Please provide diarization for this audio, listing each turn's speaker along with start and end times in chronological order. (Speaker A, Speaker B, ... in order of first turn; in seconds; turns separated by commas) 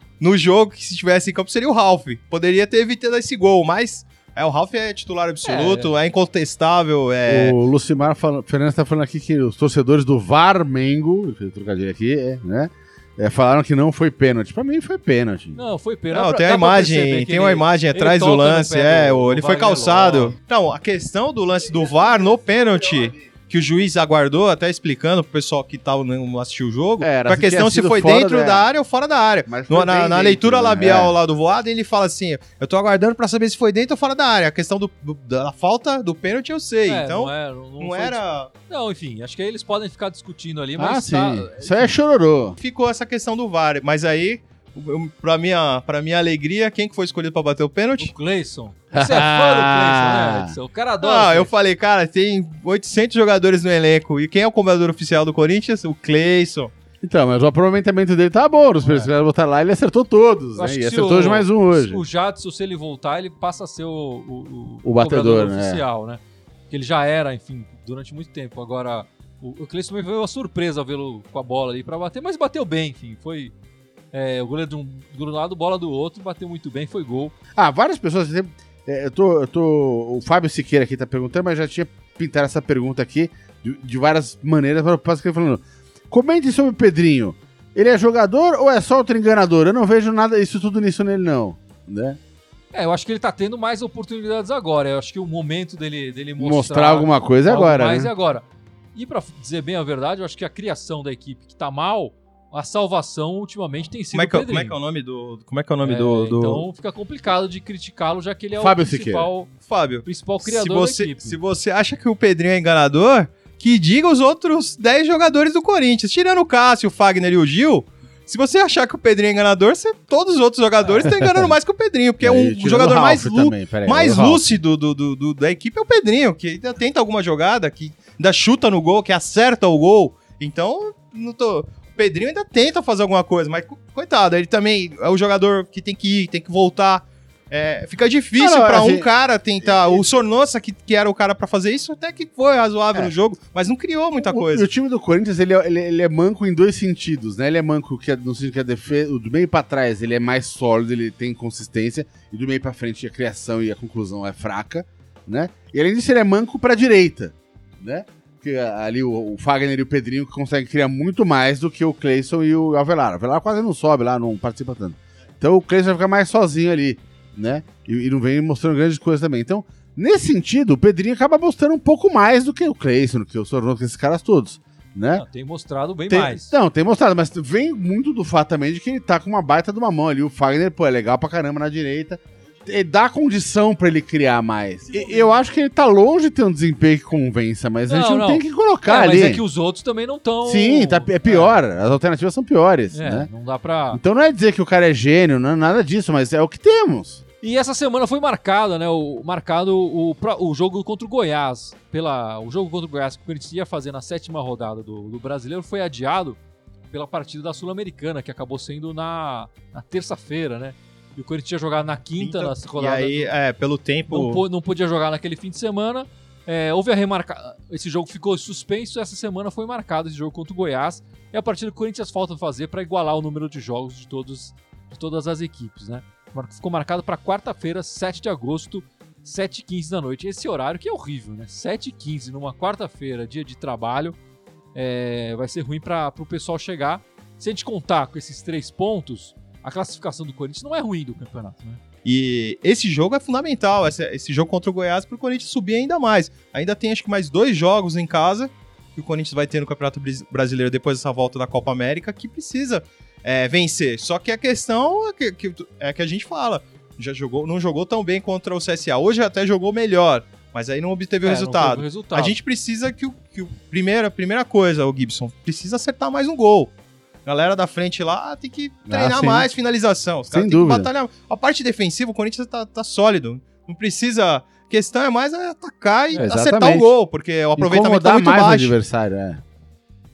Speaker A: 0.2-7.6, Speaker B: 5.4-5.9, Speaker C: 7.3-15.6, Speaker B: 15.6-20.4, Speaker A: 16.1-38.5, Speaker C: 27.0-28.6, Speaker C: 29.5-31.1, Speaker B: 36.9-41.9, Speaker C: 40.8-42.6, Speaker A: 42.6-48.1, Speaker B: 48.0-51.5, Speaker C: 48.9-50.5, Speaker A: 51.0-56.7, Speaker C: 57.0-62.0, Speaker B: 58.8-59.1, Speaker B: 60.5-73.5, Speaker C: 64.8-65.8, Speaker B: 74.1-77.3, Speaker C: 77.5-92.2, Speaker B: 92.7-104.8, Speaker C: 96.4-98.1, Speaker A: 104.1-106.7, Speaker B: 105.8-109.5, Speaker C: 108.5-109.3, Speaker A: 109.7-144.7, Speaker B: 110.0-111.4, Speaker C: 121.0-121.5, Speaker C: 122.2-124.5, Speaker C: 138.4-139.1, Speaker C: 139.6-140.0, Speaker C: 144.2-175.2, Speaker B: 175.1-176.5, Speaker C: 176.1-189.4, Speaker B: 187.9-191.6, Speaker C: 190.4-193.3, Speaker B: 192.9-194.0, Speaker C: 193.9-197.2, Speaker B: 197.4-206.4, Speaker B: 206.9-213.3, Speaker A: 212.2-214.4, Speaker B: 214.1-234.2, Speaker B: 234.7-241.8, Speaker A: 242.0-266.7, Speaker B: 261.2-262.4, Speaker A: 267.2-278.8, Speaker C: 268.9-269.5, Speaker C: 270.3-270.9, Speaker C: 276.1-276.9, Speaker C: 277.6-279.4